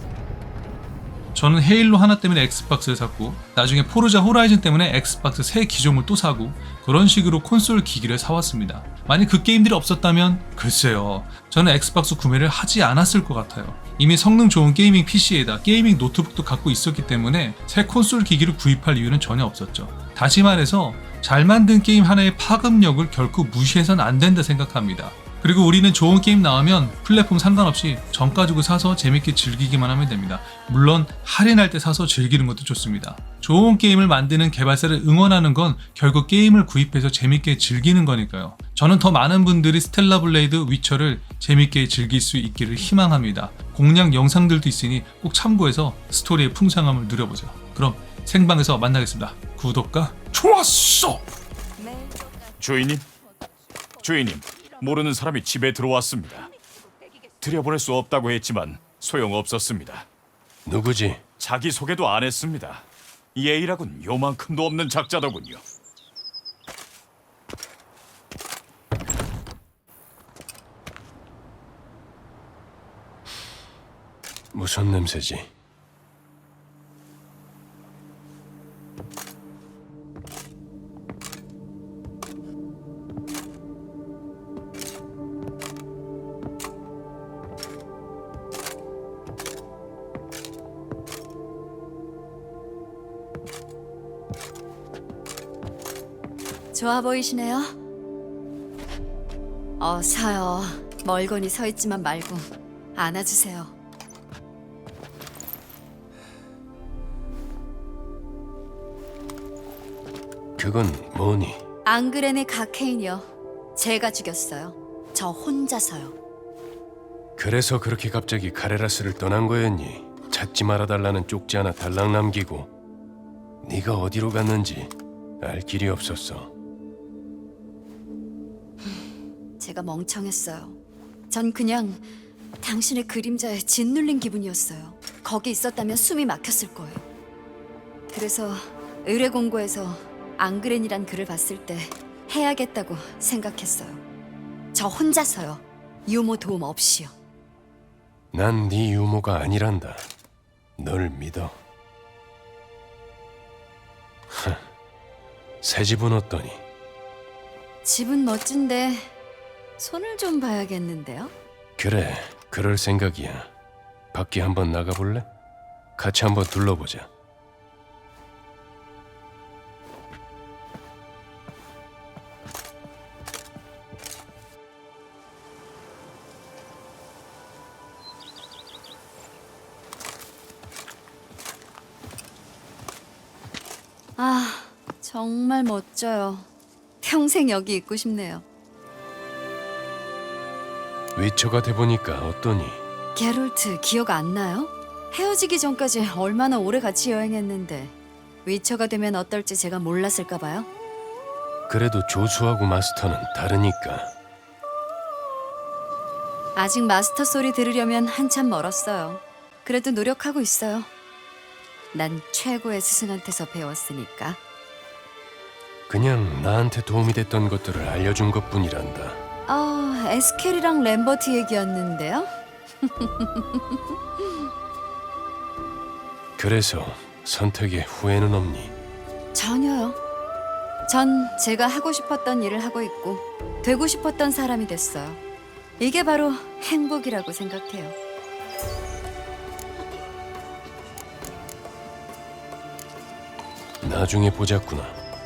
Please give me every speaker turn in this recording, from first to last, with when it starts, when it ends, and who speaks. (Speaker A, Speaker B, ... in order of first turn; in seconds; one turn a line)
Speaker A: 1.3-51.2
Speaker B: 52.6-53.1
Speaker B: 54.0-56.5
Speaker B: 57.4-60.1
Speaker C: 60.7-61.2
Speaker B: 61.4-65.6
Speaker C: 74.5-75.5
Speaker D: 96.7-97.7
Speaker D: 99.8-103.7
Speaker C: 110.6-111.6
Speaker D: 111.8-116.2
Speaker C: 117.4-122.7
Speaker C: 123.6-126.5
Speaker D: 129.6-130.8
Speaker D: 131.3-132.1
Speaker D: 132.6-137.1
Speaker D: 138.1-144.0
Speaker D: 144.7-147.1
Speaker C: 148.3-150.1
Speaker C: 150.8-151.5
Speaker C: 154.3-154.6
Speaker C: 155.6-156.6
Speaker D: 157.8-159.1
Speaker D: 159.8-161.3
Speaker C: 161.8-163.5
Speaker C: 164.1-165.3
Speaker C: 166.0-167.1
Speaker D: 184.2-186.5
Speaker D: 187.0-188.4
Speaker C: 191.2-192.8
Speaker D: 193.2-197.9
Speaker D: 198.4-200.7
Speaker C: 201.7-204.1
Speaker D: 206.6-210.9
Speaker D: 211.9-214.4
Speaker C: 215.9-219.2
Speaker D: 219.5-222.3
Speaker D: 222.8-224.4
Speaker C: 226.4-228.7
Speaker D: 229.3-230.0
Speaker D: 230.9-235.2
Speaker D: 235.8-237.9
Speaker C: 243.8-245.0